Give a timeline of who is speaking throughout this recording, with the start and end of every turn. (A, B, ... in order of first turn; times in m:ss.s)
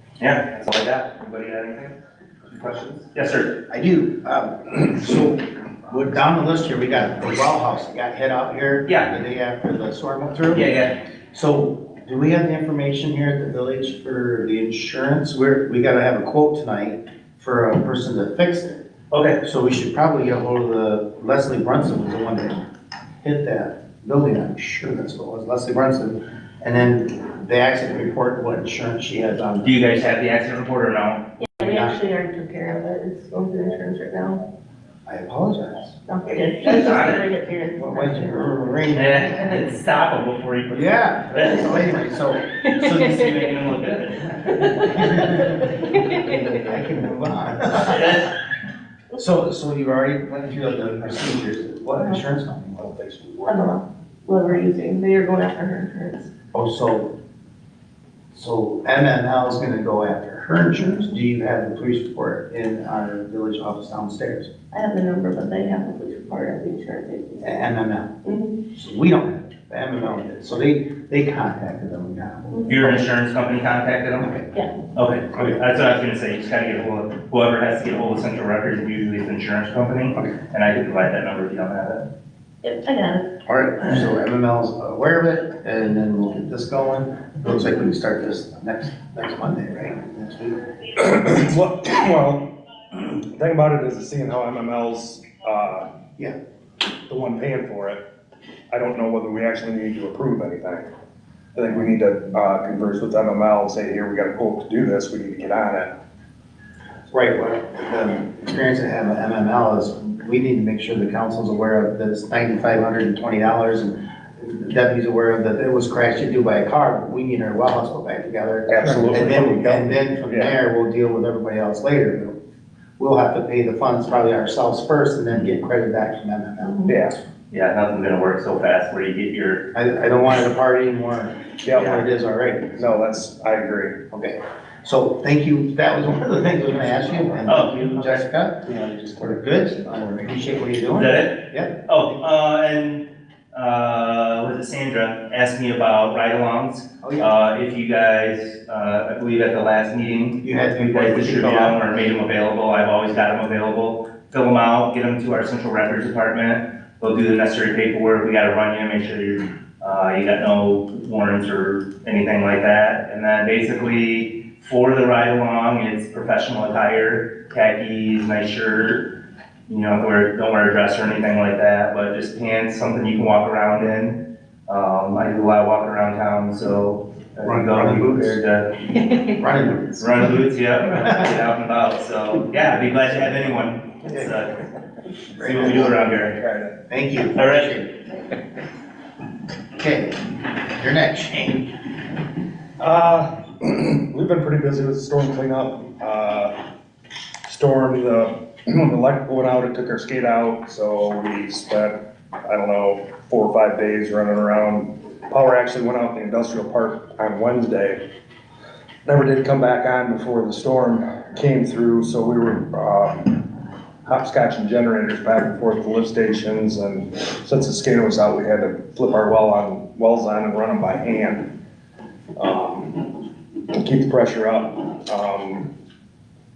0:00.2-0:02.0 A
0:02.5-0:03.6 A
0:03.7-0:10.6 B
0:08.8-0:09.1 A
0:10.5-0:11.0 A
0:11.3-0:18.8 B
0:19.1-0:19.4 A
0:19.4-0:22.6 B
0:23.2-0:29.7 B
0:29.6-0:31.3 A
0:31.4-0:34.4 C
0:31.6-0:32.0 B
0:35.0-0:36.0 B
0:36.1-0:38.5 C
0:36.4-0:37.2 A
0:37.8-0:39.6 B
0:38.9-0:41.9 A
0:40.7-0:42.5 B
0:42.6-0:45.3 A
0:42.6-0:43.4 C
0:44.5-0:46.5 C
0:44.8-0:48.2 B
0:46.0-0:46.6 A
0:47.8-0:48.3 A
0:49.1-0:52.9 B
0:52.8-0:53.8 D
0:53.4-0:56.3 C
0:56.5-0:57.1 B
0:58.3-1:04.5 B
1:04.7-1:07.6 C
1:07.4-1:08.1 B
1:08.2-1:08.6 C
1:08.7-1:13.0 B
1:12.7-1:14.4 A
1:14.9-1:22.0 A
1:22.6-1:23.3 C
1:23.4-1:30.7 B
1:31.0-1:35.9 D
1:37.1-1:38.0 D
1:38.7-1:40.9 D
1:41.5-1:45.9 D
1:47.1-2:02.4 B
1:58.7-2:00.5 D
2:03.0-2:07.1 B
2:06.9-2:07.2 D
2:07.5-2:09.7 A
2:09.7-2:12.9 B
2:11.6-2:12.0 D
2:12.8-2:14.0 D
2:14.1-2:21.7 B
2:17.4-2:18.1 A
2:18.6-2:20.3 D
2:20.9-2:49.1 A
2:27.0-2:27.3 B
2:30.4-2:31.8 B
2:49.7-2:59.1 A
2:57.4-2:58.4 B
2:59.4-3:00.3 B
3:00.0-3:04.6 A
3:05.4-3:06.4 A
3:05.4-3:06.0 B
3:05.6-3:06.8 D
3:06.9-3:07.8 B
3:07.3-3:08.0 A
3:09.8-3:11.9 B
3:12.8-3:16.6 D
3:17.4-3:28.0 D
3:29.0-3:33.5 D
3:34.0-3:41.5 D
3:42.4-3:45.7 D